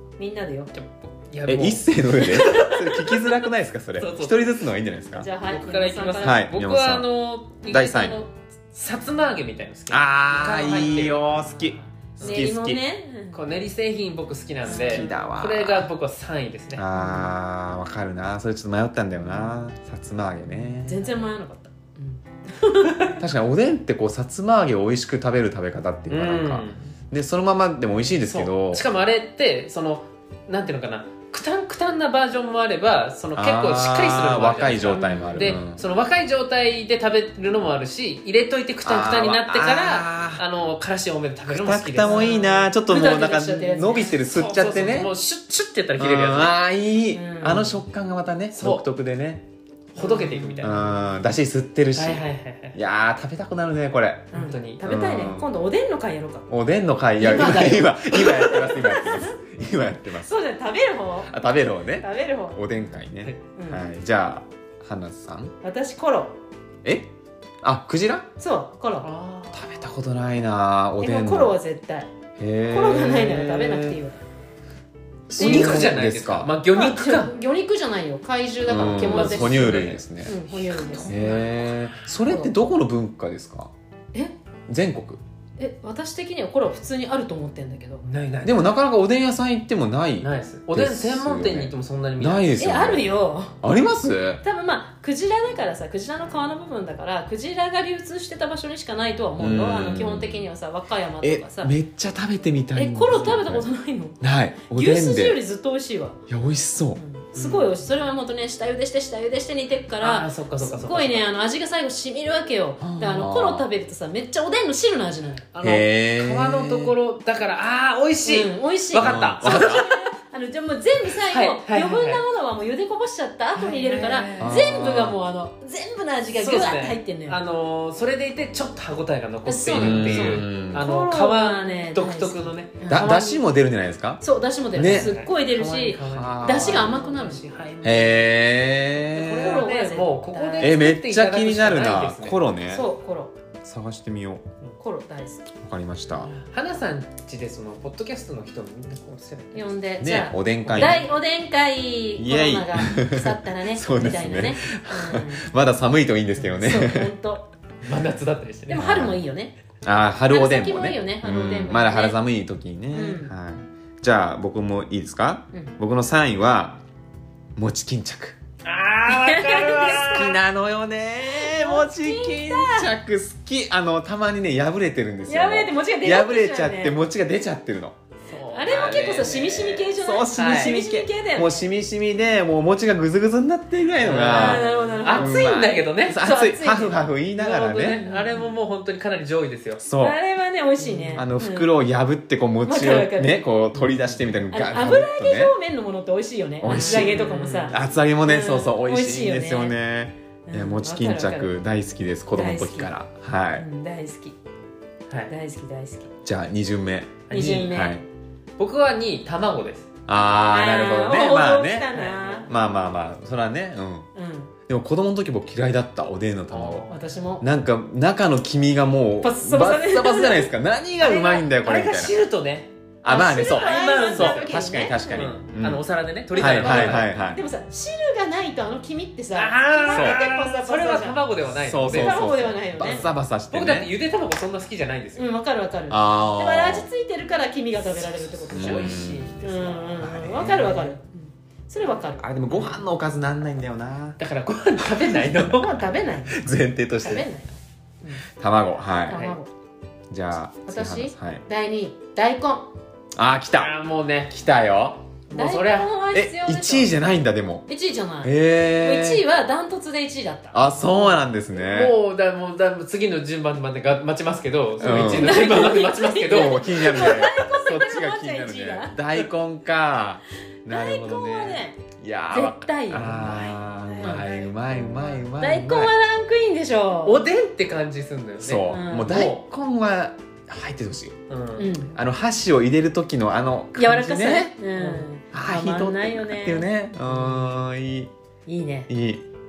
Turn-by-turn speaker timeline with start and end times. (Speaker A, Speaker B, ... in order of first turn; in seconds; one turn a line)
Speaker A: 0.2-0.7
Speaker B: 0.7-3.3
Speaker C: 1.5-5.3
Speaker B: 4.0-4.5
Speaker A: 5.2-6.5
Speaker B: 5.4-11.3
Speaker C: 6.2-7.1
Speaker C: 7.7-8.2
Speaker C: 9.9-12.8
Speaker B: 12.2-12.5
Speaker A: 12.2-13.4
Speaker B: 13.3-16.9
Speaker A: 14.7-15.2
Speaker C: 14.7-15.9
Speaker C: 16.8-21.1
Speaker A: 16.9-17.4
Speaker A: 19.2-19.6
Speaker A: 20.4-23.2
Speaker C: 23.2-28.9
Speaker B: 26.1-26.9
Speaker B: 28.2-42.4
Speaker C: 33.4-35.8
Speaker A: 35.0-35.6
Speaker C: 38.8-40.4
Speaker C: 41.5-45.1
Speaker A: 42.0-44.2
Speaker B: 44.1-46.5
Speaker C: 46.0-49.5
Speaker A: 47.1-47.8
Speaker B: 48.5-48.8
Speaker B: 50.0-50.8
Speaker A: 50.0-51.2
Speaker C: 50.6-54.3
Speaker B: 52.0-52.8
Speaker B: 54.3-54.8
Speaker A: 54.3-56.5
Speaker C: 54.8-55.5
Speaker C: 56.5-60.3
Speaker B: 57.2-58.8
Speaker A: 58.9-59.4
Speaker A: 60.2-61.3
Speaker C: 61.3-65.5
Speaker A: 62.0-62.6
Speaker A: 63.5-63.9
Speaker A: 65.6-66.4
Speaker C: 66.8-67.1
Speaker C: 67.6-68.3
Speaker A: 68.4-69.1
Speaker B: 69.0-69.7
Speaker C: 69.5-71.6
Speaker A: 71.0-72.1
Speaker C: 72.4-74.0
Speaker A: 72.7-74.2
Speaker C: 75.3-76.5
Speaker B: 75.4-77.3
Speaker A: 75.4-76.0
Speaker A: 76.7-81.2
Speaker C: 78.7-80.4
Speaker B: 79.0-82.0
Speaker C: 81.1-83.7
Speaker C: 84.7-85.2
Speaker A: 85.6-88.0
Speaker B: 88.0-88.7
Speaker C: 88.4-93.1
Speaker B: 90.2-92.7
Speaker A: 92.6-93.6
Speaker C: 93.6-94.4
Speaker A: 94.4-101.8
Speaker C: 99.4-100.5
Speaker C: 101.2-103.7
Speaker A: 102.8-106.2
Speaker C: 104.2-105.4
Speaker C: 106.3-107.0
Speaker A: 107.0-115.5
Speaker B: 107.3-107.7
Speaker B: 110.0-111.2
Speaker C: 112.8-113.7
Speaker B: 115.5-119.9
Speaker C: 115.6-117.0
Speaker A: 118.2-127.4
Speaker C: 119.0-119.9
Speaker B: 121.3-122.2
Speaker B: 123.5-124.7
Speaker C: 124.4-125.2
Speaker B: 126.3-133.4
Speaker A: 129.5-133.4
Speaker C: 129.7-130.8
Speaker C: 132.9-134.2
Speaker A: 134.2-137.4
Speaker C: 134.7-135.1
Speaker B: 134.8-138.6
Speaker C: 136.1-136.9
Speaker C: 137.8-139.7
Speaker B: 139.2-142.4
Speaker A: 139.2-140.8
Speaker C: 140.6-142.8
Speaker A: 142.7-143.3
Speaker C: 143.6-144.4
Speaker A: 144.8-145.5
Speaker C: 145.6-146.3
Speaker B: 146.2-149.8
Speaker A: 149.5-155.5
Speaker C: 150.0-151.0
Speaker B: 150.6-151.1
Speaker C: 152.2-157.1
Speaker A: 156.6-157.5
Speaker B: 157.8-158.8
Speaker A: 158.7-159.5
Speaker C: 158.8-159.2
Speaker C: 159.8-166.8
Speaker A: 160.3-162.2
Speaker A: 162.9-163.3
Speaker C: 167.6-168.4
Speaker B: 168.6-170.3
Speaker A: 169.1-170.4
Speaker C: 170.0-178.0
Speaker A: 171.3-172.9
Speaker A: 175.3-177.0
Speaker B: 178.3-179.3
Speaker A: 178.5-181.7
Speaker C: 178.6-188.0
Speaker B: 180.4-180.8
Speaker B: 184.0-186.2
Speaker A: 184.1-187.0
Speaker B: 187.4-189.8
Speaker A: 188.0-188.4
Speaker C: 189.8-190.2
Speaker A: 190.0-191.7
Speaker B: 190.8-191.2
Speaker C: 191.2-195.5
Speaker A: 192.7-193.4
Speaker B: 193.8-194.2
Speaker A: 194.5-199.8
Speaker C: 196.6-203.7
Speaker B: 196.7-197.8
Speaker A: 200.5-201.6
Speaker A: 202.3-202.9
Speaker A: 203.5-204.4
Speaker A: 205.3-206.1
Speaker C: 206.2-208.0
Speaker B: 207.3-207.7
Speaker A: 207.3-208.0
Speaker B: 208.6-209.9
Speaker C: 210.1-211.9
Speaker A: 210.5-212.5
Speaker B: 211.9-212.5
Speaker C: 212.5-214.1
Speaker A: 214.2-214.5
Speaker C: 214.7-216.9
Speaker B: 216.5-217.1
Speaker A: 216.9-217.5
Speaker C: 217.4-222.1
Speaker A: 219.2-221.5
Speaker B: 221.5-224.6
Speaker C: 223.0-227.4
Speaker A: 223.1-225.3
Speaker B: 225.1-227.1
Speaker A: 226.3-231.2
Speaker B: 229.3-235.3
Speaker C: 229.9-230.2
Speaker C: 231.6-233.9
Speaker A: 231.9-233.1
Speaker A: 235.2-242.3
Speaker C: 235.9-236.9
Speaker B: 238.4-240.9
Speaker C: 238.5-239.4
Speaker C: 240.0-240.8
Speaker C: 242.2-244.2
Speaker B: 242.5-242.8
Speaker B: 244.2-245.9
Speaker C: 244.8-245.5
Speaker A: 245.5-246.4
Speaker C: 246.3-247.3
Speaker A: 247.0-248.2
Speaker C: 248.3-249.3
Speaker A: 249.1-249.5
Speaker C: 250.1-251.4
Speaker A: 250.7-252.7
Speaker C: 253.2-253.8
Speaker B: 253.6-254.3
Speaker C: 254.3-255.0
Speaker B: 255.3-255.9
Speaker A: 255.3-257.0
Speaker C: 256.1-257.6
Speaker A: 257.7-261.2
Speaker C: 258.2-259.2
Speaker C: 260.5-261.9
Speaker B: 261.5-267.3
Speaker C: 264.8-265.7
Speaker A: 264.8-269.0
Speaker C: 266.3-275.9
Speaker A: 270.7-277.2
Speaker B: 273.9-274.3
Speaker B: 277.1-279.4
Speaker C: 278.4-281.2
Speaker A: 278.7-279.3
Speaker B: 281.3-281.8
Speaker A: 281.6-281.9
Speaker C: 281.9-284.6
Speaker A: 283.8-287.6
Speaker B: 284.8-285.1
Speaker C: 285.3-288.1
Speaker A: 288.5-288.9
Speaker C: 288.9-289.2